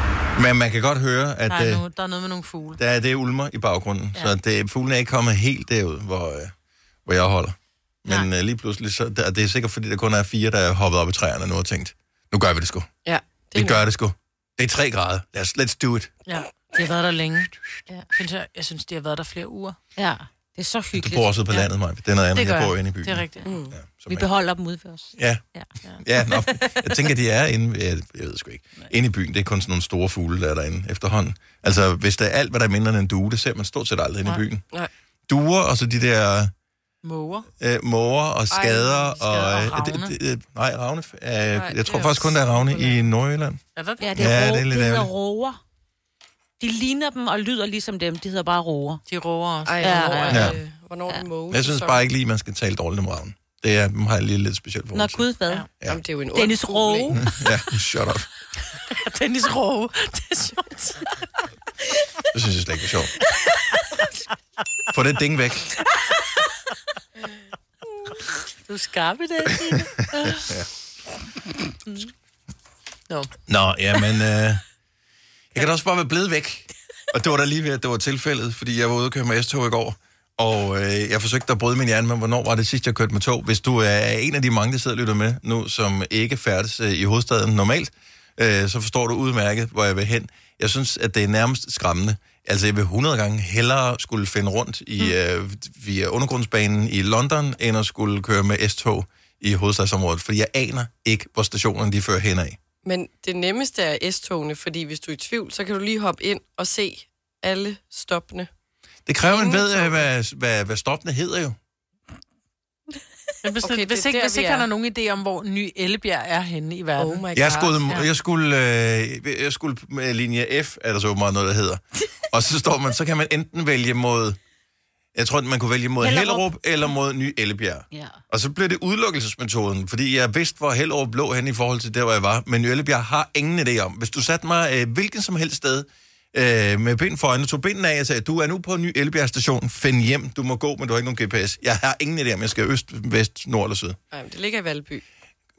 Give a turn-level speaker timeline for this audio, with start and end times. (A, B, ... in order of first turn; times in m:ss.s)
0:00.4-0:01.8 A
0:01.5-0:02.8 B
0:02.8-0:06.5 A
0:07.0-0:12.9 A
0:13.0-0:13.8 C
0:13.5-0:16.1 A
0:16.2-0:19.8 B
0:20.0-0:21.7 D
0:20.9-0:24.3 A
0:22.3-0:23.5 B
0:23.4-0:23.7 C
0:24.1-0:25.7 D
0:25.2-0:25.4 A
0:26.0-0:34.6 A
0:26.2-0:26.9 D
0:35.3-0:36.5 A
0:37.0-0:37.5 B
0:37.6-0:43.6 A
0:38.5-0:39.6 C
0:38.9-0:40.1 B
0:41.5-0:43.0 C
0:43.8-0:44.2 B
0:44.0-0:45.6 D
0:44.2-0:45.1 A
0:46.6-0:49.0 D
0:49.1-0:49.9 B
0:49.6-0:52.0 C
0:49.8-0:50.6 D
0:50.3-0:50.6 A
0:51.5-0:55.2 A
0:54.9-0:55.7 D
0:55.8-0:57.2 C
0:56.3-0:57.3 D
0:57.2-0:58.3 A
0:58.7-1:00.8 B
1:02.3-1:03.2 A
1:04.9-1:05.8 A
1:08.6-1:10.5 B
1:13.5-1:14.6 A
1:15.5-1:42.6 A
1:42.8-1:48.5 C
1:49.0-1:51.6 A
1:49.3-1:50.0 C
1:53.4-1:57.2 B
1:53.6-1:54.7 C
1:57.0-1:57.9 C
1:57.3-2:04.4 A
2:05.1-2:24.0 A
2:06.0-2:06.9 D
2:07.9-2:08.2 D
2:24.1-2:25.0 C